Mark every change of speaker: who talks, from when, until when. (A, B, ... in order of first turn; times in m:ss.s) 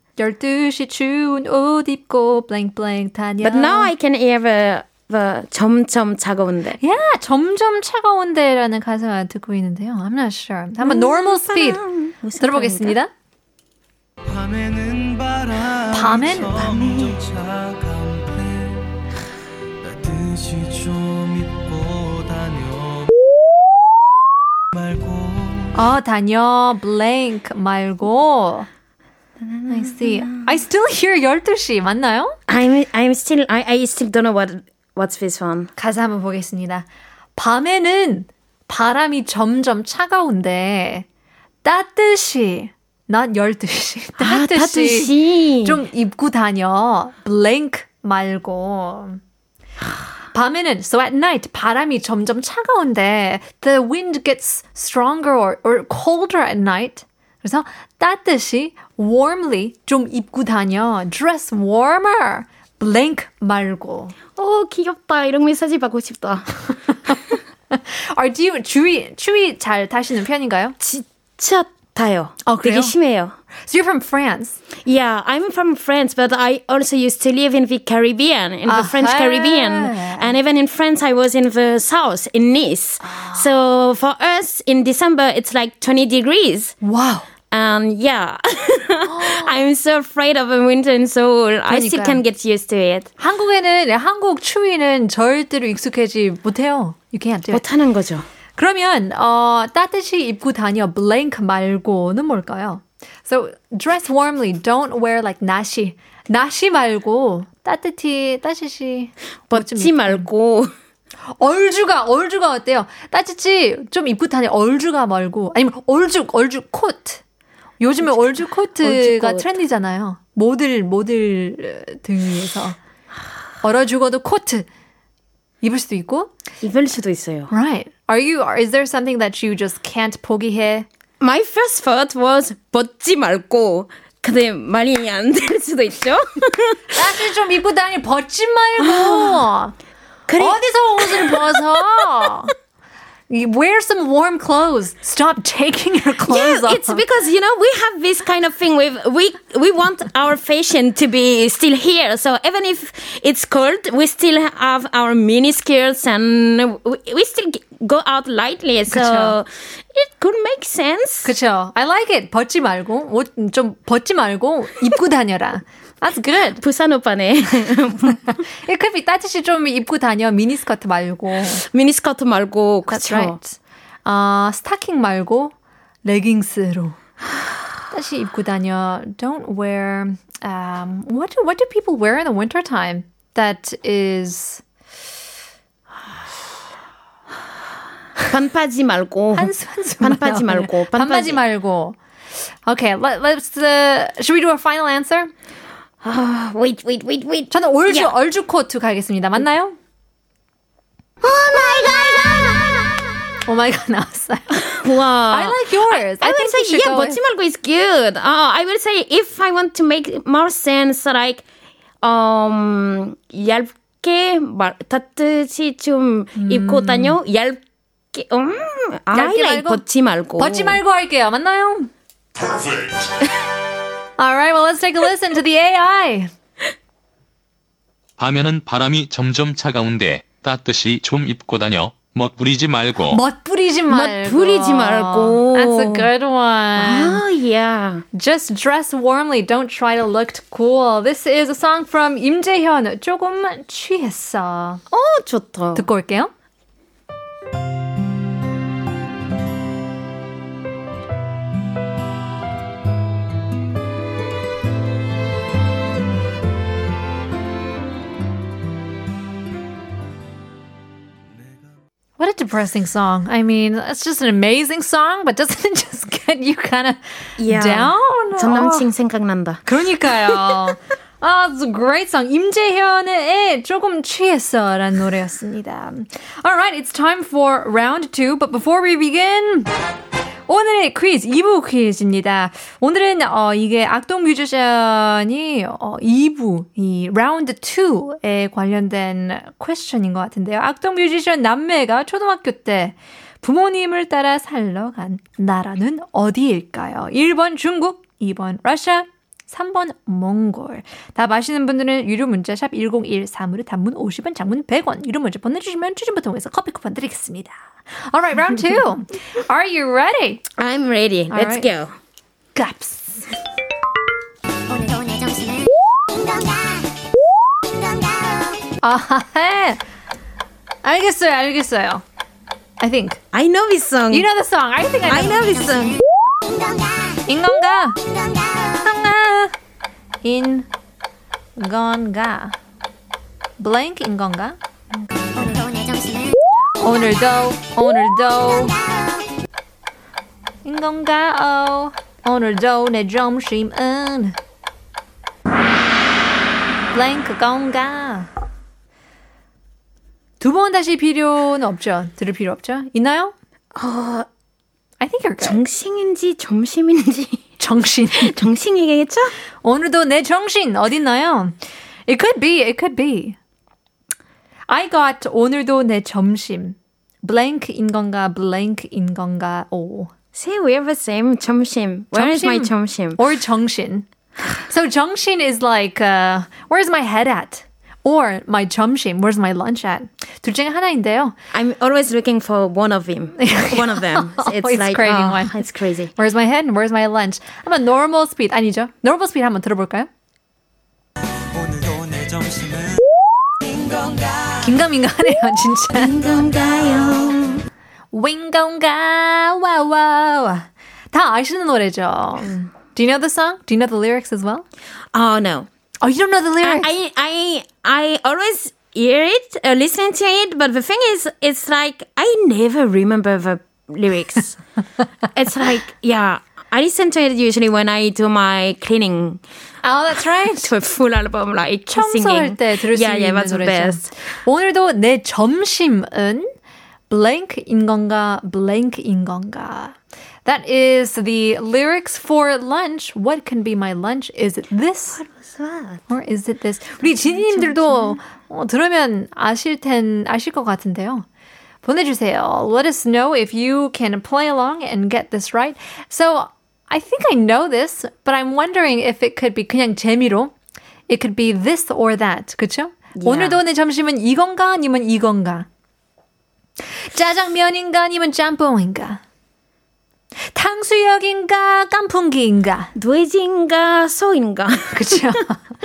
0:00.2-0:03.9 A
0:03.4-0:06.8 B
0:06.8-0:11.8 A
0:10.8-0:12.9 B
0:12.4-0:13.1 A
0:14.3-0:15.8 C
0:15.9-0:17.2 A
0:17.3-0:18.8 C
0:19.8-0:23.1 C
0:24.8-0:25.6 C
0:25.7-0:28.7 A
0:29.4-0:30.4 B
0:29.7-0:32.4 A
0:32.5-0:35.7 B
0:35.8-0:41.0 A
0:41.6-0:49.2 A
0:44.2-0:45.8 B
0:50.3-1:04.2 A
1:04.4-1:07.2 B
1:07.7-1:10.8 A
1:10.8-1:13.4 B
1:12.4-1:13.0 A
1:13.7-1:14.6 A
1:14.8-1:26.8 B
1:18.6-1:20.3 A
1:23.0-1:23.5 A
1:26.8-1:27.3 A
1:27.5-1:33.1 B
1:29.0-1:29.6 A
1:31.7-1:32.2 A
1:33.2-1:37.6 A
1:37.5-1:38.2 B
1:38.6-1:50.3 A
1:49.5-1:50.7 B
1:51.4-1:57.2 A
1:57.8-2:02.8 A
1:58.0-1:59.5 B
2:03.6-2:04.7 A
2:05.6-2:06.3 A
2:06.6-2:07.5 B
2:07.5-2:10.9 A
2:11.2-2:16.9 B
2:16.9-2:19.7 A
2:18.8-2:19.5 B
2:20.3-2:22.3 B
2:20.4-2:22.5 A
2:23.3-2:27.0 A
2:26.3-2:41.3 B
2:38.9-2:39.3 A
2:41.2-2:46.6 A
2:46.6-2:48.4 B
2:48.6-2:51.6 A
2:51.6-2:53.4 B
2:52.9-2:57.0 A
2:57.9-3:04.6 A
3:08.3-3:11.4 B
3:09.3-3:12.0 A
3:12.6-3:15.3 A
3:16.0-3:18.1 B
3:17.5-3:19.8 A
3:21.3-3:21.7 B
3:21.8-3:22.8 D
3:23.4-3:24.6 A
3:24.7-3:31.4 B
3:25.3-3:27.2 A
3:32.0-3:37.6 B
3:36.4-3:37.2 A
3:38.1-3:40.8 B
3:39.1-3:39.8 A
3:40.4-3:41.9 A
3:44.2-3:46.3 A
3:48.2-3:53.2 E
3:53.1-3:57.2 A
3:53.9-3:56.1 B
3:56.8-3:58.0 B
3:58.1-4:04.8 A
4:04.9-4:05.8 B
4:05.7-4:06.3 A
4:22.2-4:28.8 A
4:27.4-4:29.6 B
4:29.6-4:39.7 A
4:40.5-5:07.6 A
5:08.1-5:10.4 A
5:10.6-5:11.9 B
5:11.3-5:11.7 A
5:12.5-5:13.3 A
5:14.7-5:15.7 D
5:16.3-5:16.6 D
5:17.9-5:18.5 D
5:18.8-5:19.8 A
5:20.8-5:22.0 A
5:22.8-5:23.2 A
5:23.3-5:24.3 B
5:24.1-5:25.5 A
5:25.0-5:26.0 B
5:25.7-5:25.9 D
5:26.5-5:26.8 D
5:27.2-5:28.0 A
5:28.7-5:29.5 A
5:30.2-5:30.7 A
5:31.6-5:32.6 A
5:33.6-5:34.6 A
5:34.9-5:35.7 B
5:35.4-5:36.4 D
5:36.8-5:38.8 A
5:40.6-5:44.4 A
5:46.9-5:48.3 A
5:50.4-5:53.3 A
5:53.7-5:54.3 B
5:55.0-5:55.6 A
5:55.4-5:57.4 B
5:57.6-5:58.5 A
5:58.2-5:59.3 B
5:59.6-6:03.4 A
6:04.7-6:10.1 A
6:10.3-6:13.2 B
6:12.1-6:21.4 A
6:21.5-6:26.1 B
6:23.4-6:25.6 A
6:26.2-6:30.1 A
6:34.5-6:36.1 A
6:35.9-6:37.6 B
6:38.1-6:44.6 A
6:45.1-6:45.7 B
6:46.0-6:46.9 A
6:46.6-6:54.6 B
6:55.3-6:59.4 B
6:59.8-7:00.7 A
7:00.3-7:04.1 B
7:01.9-7:06.5 A
7:07.1-7:15.2 A
7:15.2-7:16.0 B
7:16.1-7:21.2 A
7:17.0-7:18.2 B
7:21.8-7:30.5 A
7:31.1-7:35.7 A
7:33.2-7:33.6 B
7:37.1-7:39.2 A
7:40.5-7:42.9 A
7:42.9-7:45.2 B
7:44.9-7:45.6 A